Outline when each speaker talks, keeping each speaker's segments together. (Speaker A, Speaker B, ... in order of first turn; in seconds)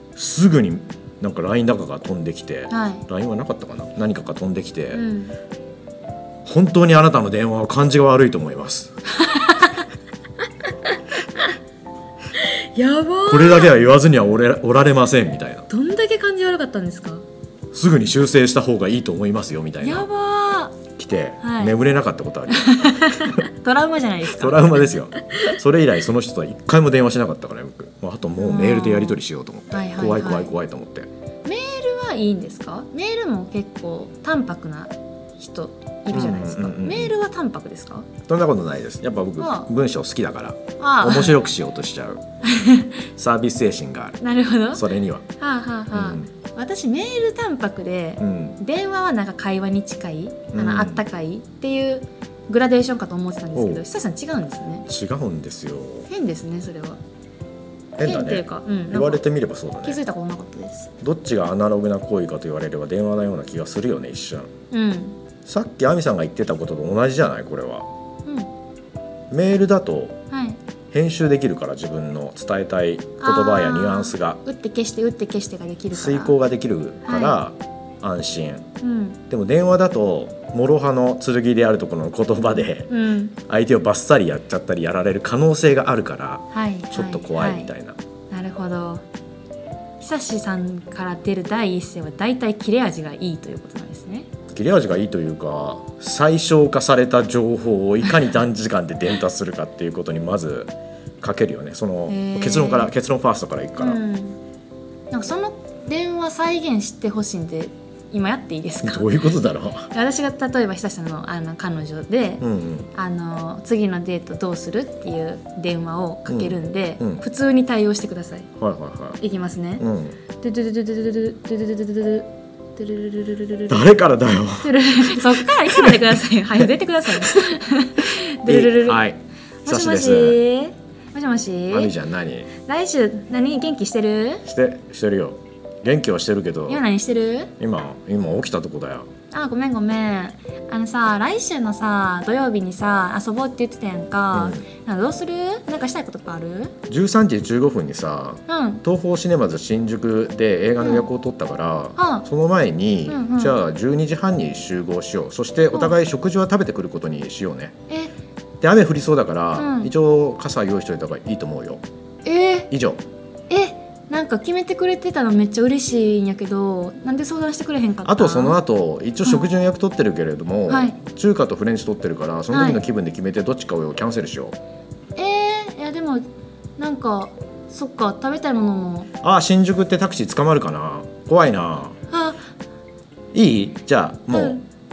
Speaker A: 0.1-5.0, 6.4-8.9, 13.3-15.7, 17.7-20.1, 20.9-23.4, 24.2-31.1, 36.1-37.1, 38.3-42.2, 43.2-44.2, 44.7-45.2, 45.9-46.3, 48.2-48.6, 50.5-51.0, 53.5-53.8, 54.9-56.1, 58.0-60.0, 61.0-64.5, 65.5-67.9, 69.3-70.2, 70.9-74.4, 75.9-78.7, 79.3-82.9, 83.4-88.0, 94.5-104.0, 108.8-109.9, 112.4-112.9, 116.3-117.2, 118.6-119.2, 119.8-120.2, 123.7-126.0, 126.6-127.5, 128.4-130.4, 131.7-132.5, 134.4-136.8, 137.6-139.1, 144.3-144.6, 146.9-157.8, 158.6-161.8, 162.7-163.0, 168.0-174.6, 179.2-182.0, 183.3-184.6
Speaker B: 2.7-3.0, 4.9-5.3, 9.2-9.8, 10.9-11.5, 12.3-13.7, 15.7-17.2, 19.8-20.8, 21.4-21.8, 22.5-25.6, 28.4-29.2, 29.7-30.5, 31.4-38.1, 39.4-39.7, 40.8-41.4, 42.4-42.9, 44.2-44.9, 45.4-54.9, 56.1-57.0, 58.0-59.2, 59.8-60.9, 64.7-65.2, 70.3-70.6, 73.2-76.3, 77.0-77.4, 78.8-79.2, 82.9-83.3, 86.5-87.7, 88.3-89.0, 90.0-94.3, 102.1-102.9, 103.8-104.4, 105.1-109.1, 109.9-118.5, 119.2-119.8, 120.4-123.9, 124.6-129.0, 129.6-131.9, 132.6-134.5, 136.7-137.5, 139.3-146.8, 148.5-148.8, 150.8-151.1, 152.0-152.2, 153.1-153.6, 159.6-159.9, 162.2-162.7, 163.5-168.6, 170.7-171.0, 172.5-172.8, 175.2-176.2, 176.8-179.1, 182.1-182.4, 184.3-184.6